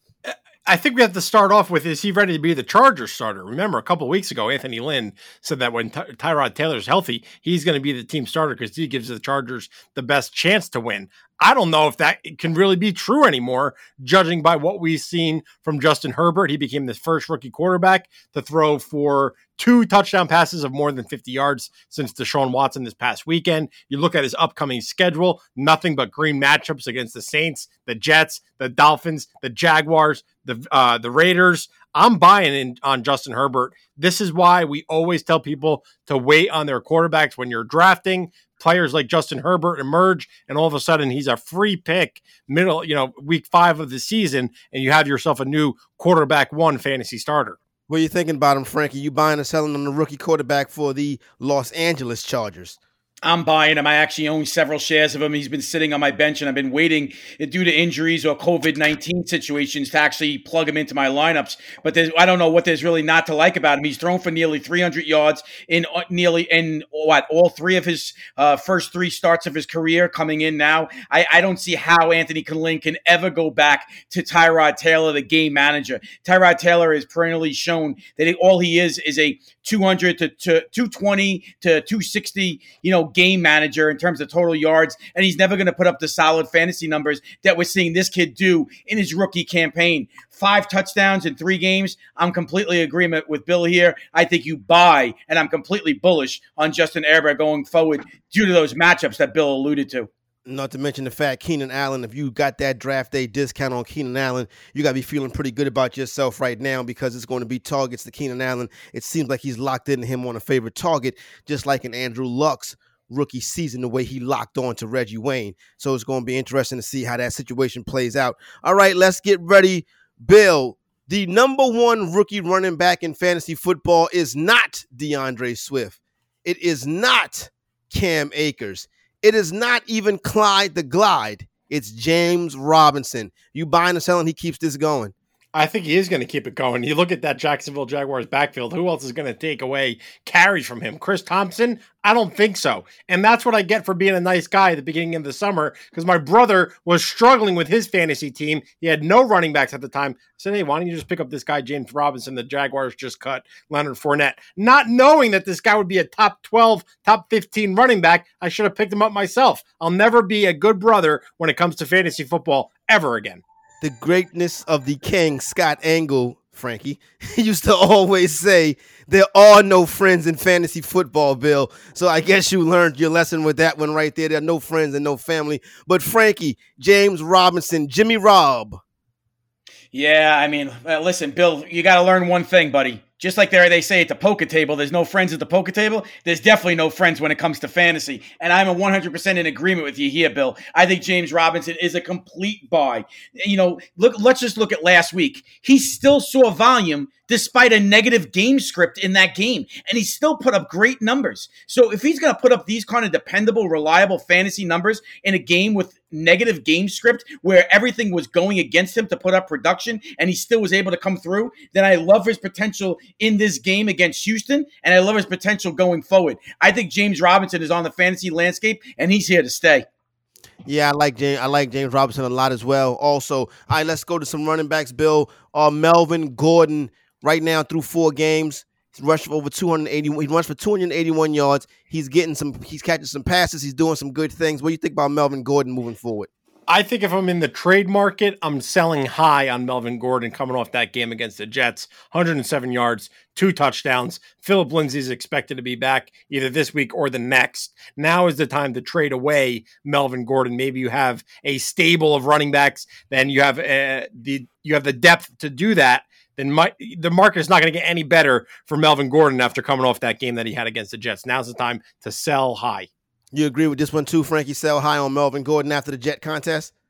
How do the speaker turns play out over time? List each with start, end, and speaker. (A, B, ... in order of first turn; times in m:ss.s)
0:00.2-0:47.6 A
0:47.9-0:52.8 B
0:53.2-1:40.1 C
1:40.4-2:15.1 B
2:15.5-2:43.4 A
2:43.8-2:58.8 B
2:59.9-3:39.8 C
3:40.6-3:56.3 B
3:56.7-4:22.9 A
4:23.3-4:26.7 B